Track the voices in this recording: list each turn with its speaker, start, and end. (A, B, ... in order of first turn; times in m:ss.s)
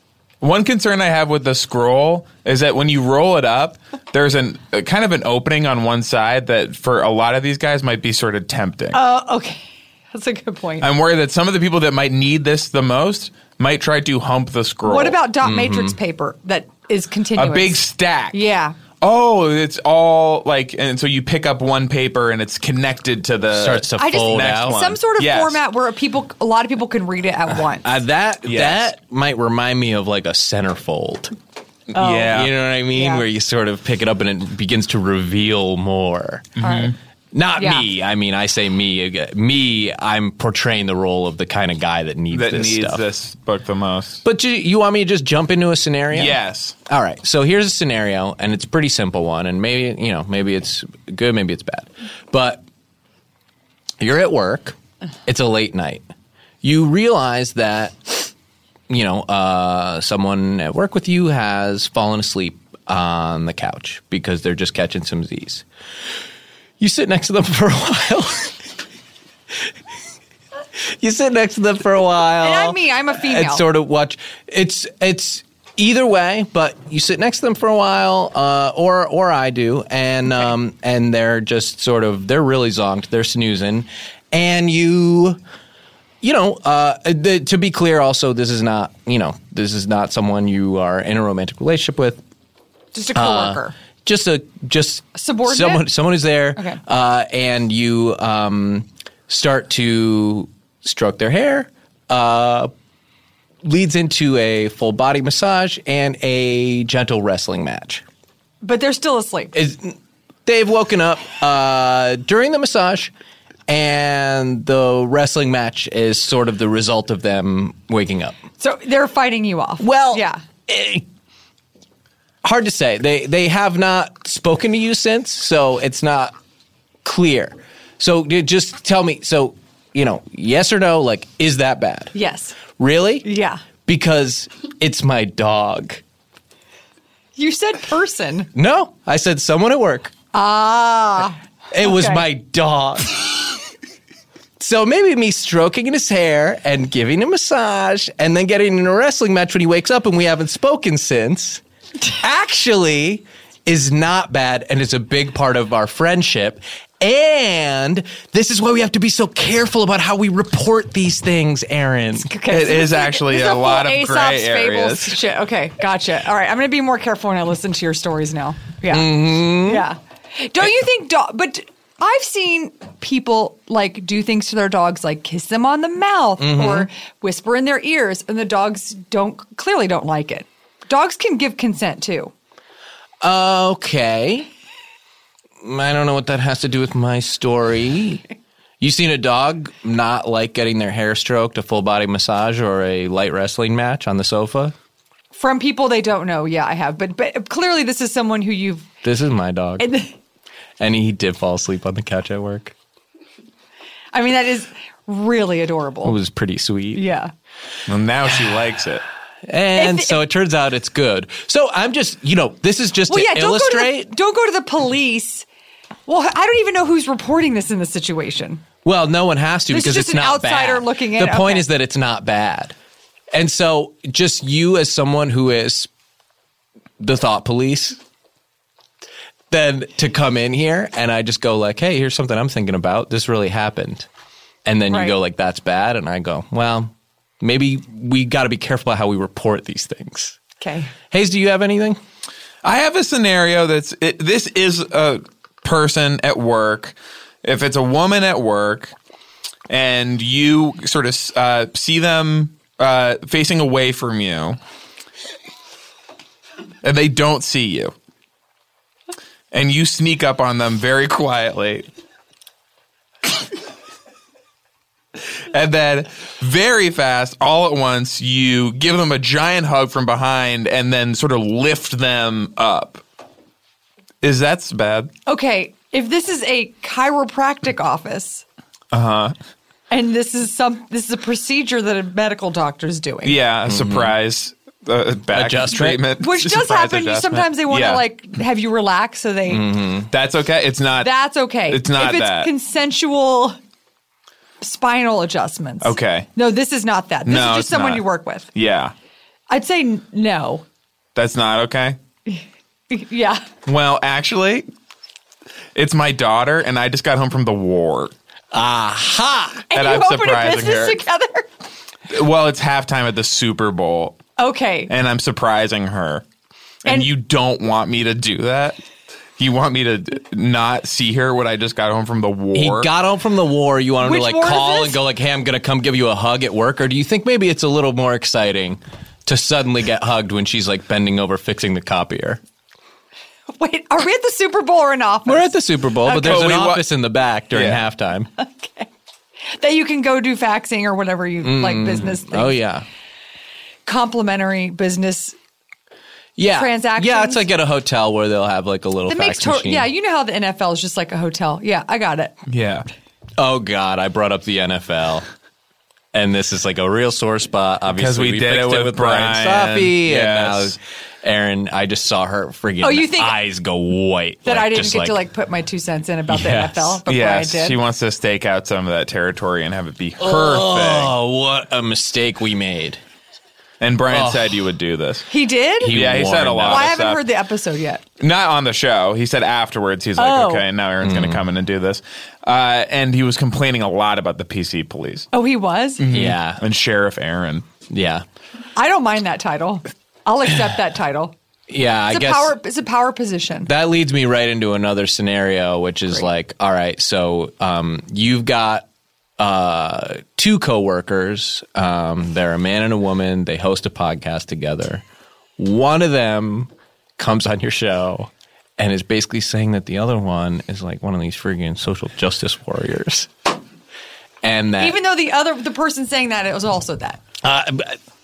0:00.4-0:09.0 A
0:08.9-0:10.9 B
0:10.8-0:15.2 A
0:14.8-0:18.8 B
0:15.4-0:16.0 C
0:17.4-0:18.4 A
0:19.0-0:25.6 A
0:23.5-0:24.8 C
0:24.0-0:28.0 B
0:27.8-0:31.4 C
0:28.4-0:28.9 A
0:31.9-0:32.5 A
0:31.9-0:33.2 B
0:32.2-0:36.6 C
0:36.6-0:37.0 A
0:36.6-0:36.9 B
0:37.3-0:43.0 C
0:37.6-0:37.9 B
0:42.3-0:44.2 A
0:44.2-0:52.6 C
0:46.1-0:46.8 A
0:54.0-0:56.1 C
0:56.6-0:58.3 C
0:58.9-1:05.6 C
1:06.8-1:08.6 C
1:10.8-1:25.4 C
1:12.4-1:13.6 B
1:26.2-1:32.2 C
1:32.9-1:33.8 B
1:33.1-1:42.7 C
1:35.1-1:35.9 B
1:43.6-1:48.0 C
1:48.6-1:49.5 B
1:49.5-1:53.1 C
1:53.7-1:58.4 C
1:58.6-2:00.4 B
1:59.8-2:01.0 C
2:02.4-2:06.3 C
2:07.0-2:12.1 C
2:12.1-2:12.6 B
2:12.7-2:13.3 C
2:13.2-2:13.6 B
2:13.8-2:16.0 C
2:17.4-2:18.5 B
2:18.5-2:20.1 C
2:20.3-2:22.2 B
2:21.7-2:23.6 C
2:24.6-2:42.3 C
2:42.2-3:02.3 B
2:42.5-2:45.2 A
2:48.9-2:49.9 C
2:56.4-2:56.9 C
3:03.2-3:04.5 C
3:05.6-3:08.2 C
3:08.8-3:14.8 C
3:15.3-3:18.9 B
3:19.0-3:19.9 C
3:19.8-3:20.1 B
3:20.8-3:22.8 C
3:24.1-3:26.2 B
3:26.0-3:27.0 C
3:26.9-3:27.3 B
3:27.9-3:29.0 A
3:29.4-3:34.1 C
3:29.8-3:30.2 B
3:33.1-3:35.4 B
3:36.1-3:38.6 B
3:38.8-3:42.8 C
3:39.7-3:41.6 B
3:43.3-3:45.9 C
3:47.0-3:48.0 C
3:49.5-3:54.1 C
3:54.6-4:00.4 C
3:54.9-3:55.2 B
4:00.6-4:00.9 B
4:01.1-4:02.0 C
4:02.6-4:08.9 A
4:09.7-4:14.6 A
4:16.8-4:17.9 A
4:19.5-4:21.9 A
4:25.5-4:33.0 A
4:34.2-4:35.1 A
4:35.3-4:38.4 B
4:38.9-4:39.4 A
4:39.9-4:43.4 B
4:43.2-4:48.0 A
4:43.6-4:44.1 C
4:45.3-4:46.0 C
4:46.2-4:49.7 B
4:49.5-4:50.1 C
4:50.1-4:51.1 A
4:51.0-4:53.6 B
4:51.7-4:52.5 A
4:54.6-4:58.5 B
4:55.8-4:56.3 A
4:57.3-4:58.9 A
4:59.5-5:00.6 B
5:01.2-5:02.0 A
5:02.3-5:03.4 B
5:03.6-5:04.6 A
5:05.8-5:08.1 A
5:08.5-5:09.7 C
5:09.7-5:11.5 B
5:09.7-5:11.0 A
5:12.1-5:14.2 A
5:14.4-5:14.9 B
5:14.9-5:16.2 A
5:16.8-5:18.8 A
5:19.4-5:22.9 A
5:22.5-5:32.4 C
5:24.0-5:25.0 B
5:33.6-5:35.6 B
5:35.3-5:38.3 C
5:36.1-5:36.9 A
5:36.1-5:36.4 B
5:37.5-5:37.8 A
5:38.4-5:38.9 B
5:39.6-5:42.6 B
5:41.4-5:42.9 C
5:43.9-5:45.4 B
5:46.4-5:49.9 C
5:46.4-5:47.4 B
5:49.1-5:52.4 B
5:52.5-5:52.9 A
5:53.4-5:55.3 C
5:56.1-6:05.2 C
5:57.9-6:00.8 A
6:02.8-6:03.4 B
6:04.4-6:07.8 B
6:06.3-6:07.0 C
6:07.1-6:11.1 A
6:10.2-6:13.0 C
6:13.8-6:15.3 A
6:14.1-6:14.6 C
6:15.3-6:15.9 B
6:15.8-6:16.9 C
6:15.8-6:17.2 A
6:16.7-6:18.0 B
6:18.2-6:25.3 A
6:20.2-6:20.6 B
6:21.0-6:21.4 C
6:25.3-6:26.0 B
6:26.0-6:27.7 A
6:26.1-6:26.6 C
6:27.9-6:28.2 C
6:28.8-6:31.3 B
6:31.7-6:32.6 C
6:32.1-6:33.7 B
6:33.6-6:38.9 C
6:39.4-6:45.0 C
6:45.6-6:53.3 C
6:54.4-6:55.0 C
6:54.8-6:57.2 B
6:57.4-6:58.0 C